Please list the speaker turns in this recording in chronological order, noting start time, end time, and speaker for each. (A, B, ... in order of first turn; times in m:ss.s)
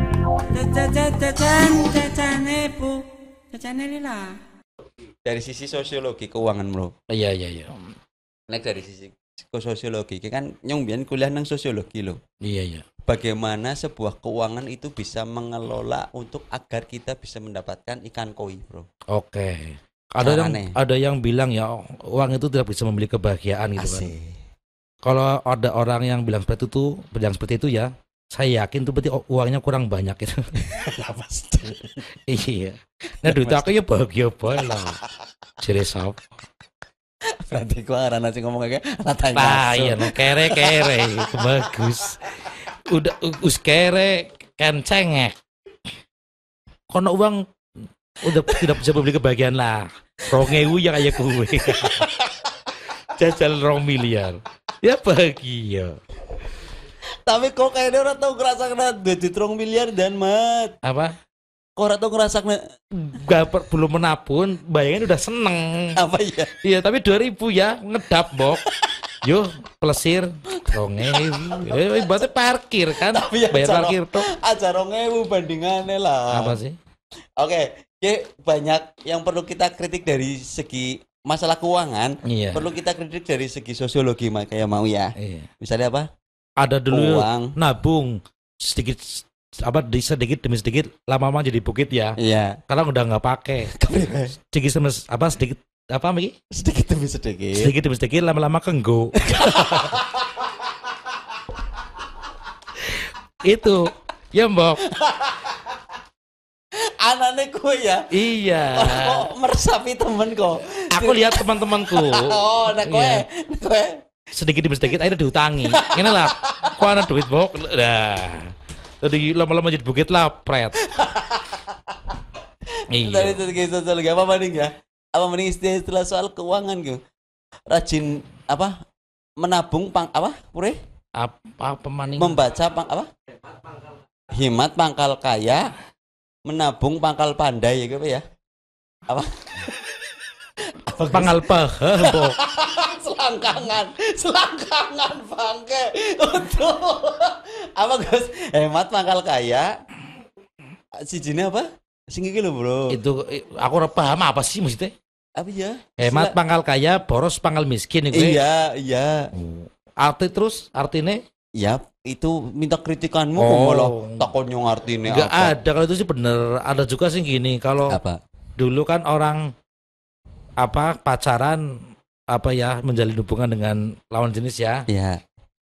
0:00.5-0:04.4 A
0:05.2-0:06.9 B
0:07.1-0:07.7 C
0:08.5-0:12.2 B
0:12.4-0:12.8 C
0:13.0-0:18.8 B
0:19.1-0:24.1 C
0:20.2-0:20.8 B
0:23.8-0:24.4 B
0:25.0-0:30.4 C
0:30.6-0:32.0 B
0:32.3-0:35.0 C
0:33.2-0:33.7 B
0:35.6-0:36.2 C
0:37.5-0:42.0 B
0:39.3-0:45.3 C
0:46.9-0:47.4 C
0:48.2-0:52.0 C
0:50.4-0:52.5 B
0:53.0-0:55.9 C
0:57.2-1:00.7 B
1:00.8-1:01.1 C
1:01.8-1:02.6 B
1:03.0-1:06.0 C
1:06.0-1:06.5 B
1:06.6-1:08.6 C
1:08.4-1:08.9 B
1:09.2-1:14.2 C
1:10.6-1:12.2 B
1:12.9-1:16.6 B
1:16.3-1:16.7 C
1:17.4-1:26.0 B
1:22.3-1:22.7 C
1:25.2-1:25.5 C
1:26.6-1:33.7 C
1:26.9-1:27.5 B
1:32.2-1:32.6 B
1:33.6-1:34.3 B
1:34.4-1:36.3 C
1:36.5-1:37.7 B
1:37.5-1:40.0 C
1:39.2-1:40.5 B
1:42.9-1:44.8 C
1:44.9-1:45.7 B
1:46.8-1:48.1 B
1:48.1-1:49.3 C
1:48.7-1:54.0 B
1:50.9-1:53.2 C
1:54.3-1:58.5 C
1:55.6-1:56.9 B
1:59.0-2:00.8 C
2:00.8-2:01.7 B
2:02.9-2:03.4 C
2:03.0-2:07.0 B
2:07.7-2:08.7 B
2:09.4-2:10.8 B
2:11.2-2:12.4 C
2:12.2-2:13.1 B
2:14.3-2:15.7 B
2:16.4-2:18.2 B
2:19.1-2:20.0 B
2:20.9-2:29.7 B
2:21.1-2:22.4 C
2:31.0-2:32.8 B
2:32.9-2:34.9 C
2:35.4-2:36.3 B
2:36.0-2:38.4 C
2:38.1-2:39.2 B
2:39.3-2:41.2 C
2:41.6-2:45.5 B
2:43.4-2:44.3 C
2:45.1-2:48.0 C
2:47.9-2:48.2 B
2:48.6-2:49.4 C
2:50.6-2:51.6 C
2:52.3-2:54.8 C
2:54.9-2:55.2 B